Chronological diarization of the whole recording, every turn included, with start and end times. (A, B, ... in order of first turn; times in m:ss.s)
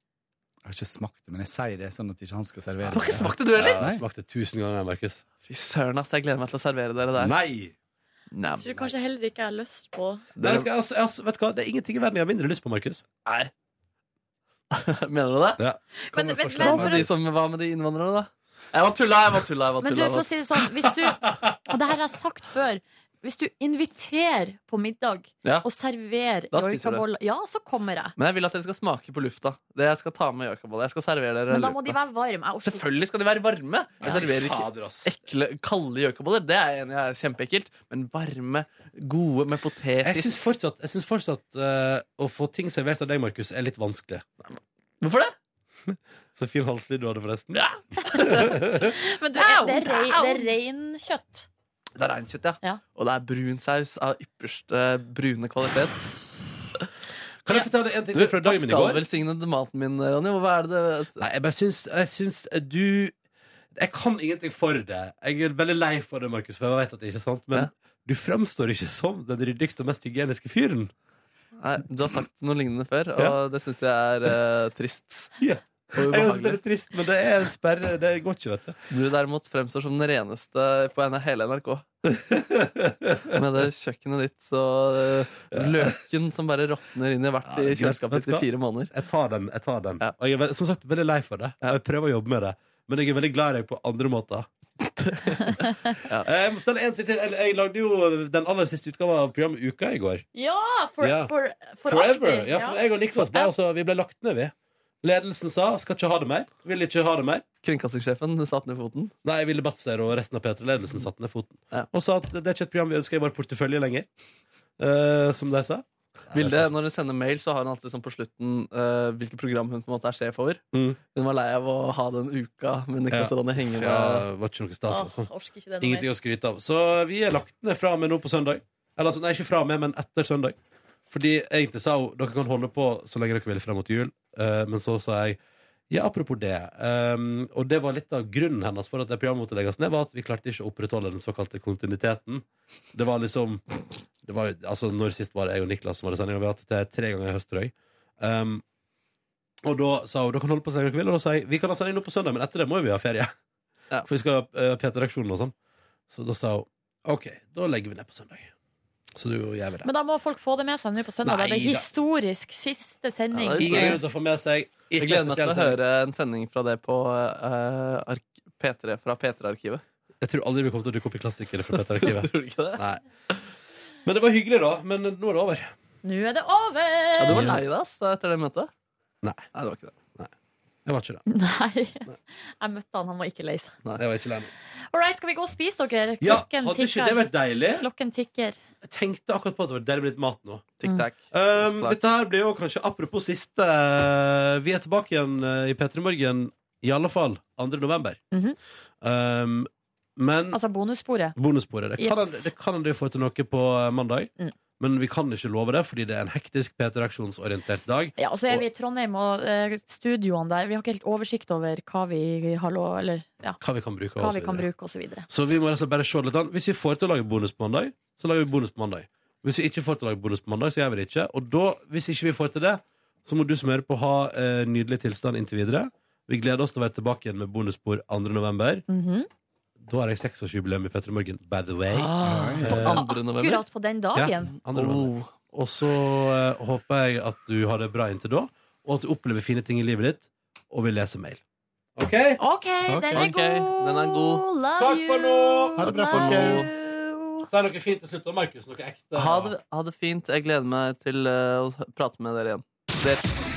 0:00.6-0:04.0 A
0:02.9-0:03.8 B
0:03.2-0:05.2 C
0:05.4-0:07.4 B
0:07.2-0:07.7 C
0:08.3-0:08.8 B
0:08.6-0:10.2 D
0:10.4-0:10.7 B
0:10.4-0:13.0 C
0:13.2-0:13.5 B
0:14.7-0:15.6 B
0:16.0-0:17.1 D
0:16.1-0:17.1 A
0:16.6-0:20.3 B
0:19.8-0:28.1 D
0:26.5-0:27.0 B
0:28.2-0:32.0 B
0:31.5-0:32.8 D
0:32.6-0:40.5 B
0:34.0-0:35.1 C
0:40.0-0:44.2 C
0:44.4-0:45.3 B
0:45.9-0:47.6 C
0:47.5-0:48.6 B
0:48.2-0:48.9 C
0:48.7-0:51.5 D
0:49.3-0:50.5 B
0:52.0-0:56.2 B
0:57.4-0:59.0 C
0:58.1-1:01.2 B
1:01.2-1:03.1 C
1:03.7-1:10.9 C
1:11.6-1:15.3 B
1:15.4-1:18.8 C
1:15.9-1:16.6 B
1:18.9-1:21.8 B
1:22.0-1:23.4 C
1:23.3-1:28.9 B
1:25.5-1:25.9 C
1:27.4-1:34.5 C
1:35.0-1:36.3 B
1:36.2-1:40.2 C
1:40.3-1:43.5 D
1:41.0-1:41.3 C
1:41.8-1:47.4 C
1:47.6-1:49.1 B
1:49.2-1:54.1 C
1:54.8-1:56.7 C
1:56.3-2:00.6 B
2:00.7-2:01.0 C
2:01.1-2:04.2 B
2:03.1-2:05.3 C
2:04.9-2:06.1 D
2:05.8-2:10.6 C
2:11.1-2:15.4 C
2:15.9-2:23.6 C
2:24.2-2:28.6 C
2:29.6-2:33.3 C
2:34.0-2:35.5 C
2:36.1-2:38.5 C
2:39.2-2:39.9 C
2:39.8-2:44.0 D
2:41.2-2:41.9 C
2:43.3-2:44.0 B
2:43.6-2:45.8 C
2:45.0-2:49.8 B
2:50.2-2:53.0 C
2:51.8-2:52.8 B
2:54.0-2:55.7 C
2:56.0-2:57.5 D
2:57.2-2:58.7 B
2:57.3-2:57.6 C
2:59.2-2:59.5 C
2:59.5-2:59.9 B
3:00.8-3:01.2 C
3:01.3-3:03.8 D
3:04.0-3:04.5 C
3:04.9-3:08.6 D
3:06.2-3:07.8 C
3:08.8-3:10.8 C
3:10.8-3:12.0 B
3:11.3-3:18.2 C
3:19.0-3:20.6 C
3:20.5-3:21.3 D
3:21.4-3:28.6 C
3:22.0-3:22.5 D
3:28.2-3:33.6 D
3:33.6-3:34.7 C
3:34.2-3:35.3 D
3:35.3-3:48.8 C
3:48.9-3:49.3 D
3:49.8-3:53.0 C
3:51.9-3:53.6 B
3:52.2-3:52.9 A
3:52.9-3:54.5 D
3:54.1-4:01.4 C
3:54.7-3:55.3 B
4:02.0-4:02.4 C
4:02.4-4:07.5 D
4:02.9-4:03.2 A
4:03.1-4:04.4 B
4:04.8-4:06.3 C
4:05.8-4:06.6 A
4:05.8-4:06.7 B
4:07.5-4:09.5 C
4:09.1-4:13.3 B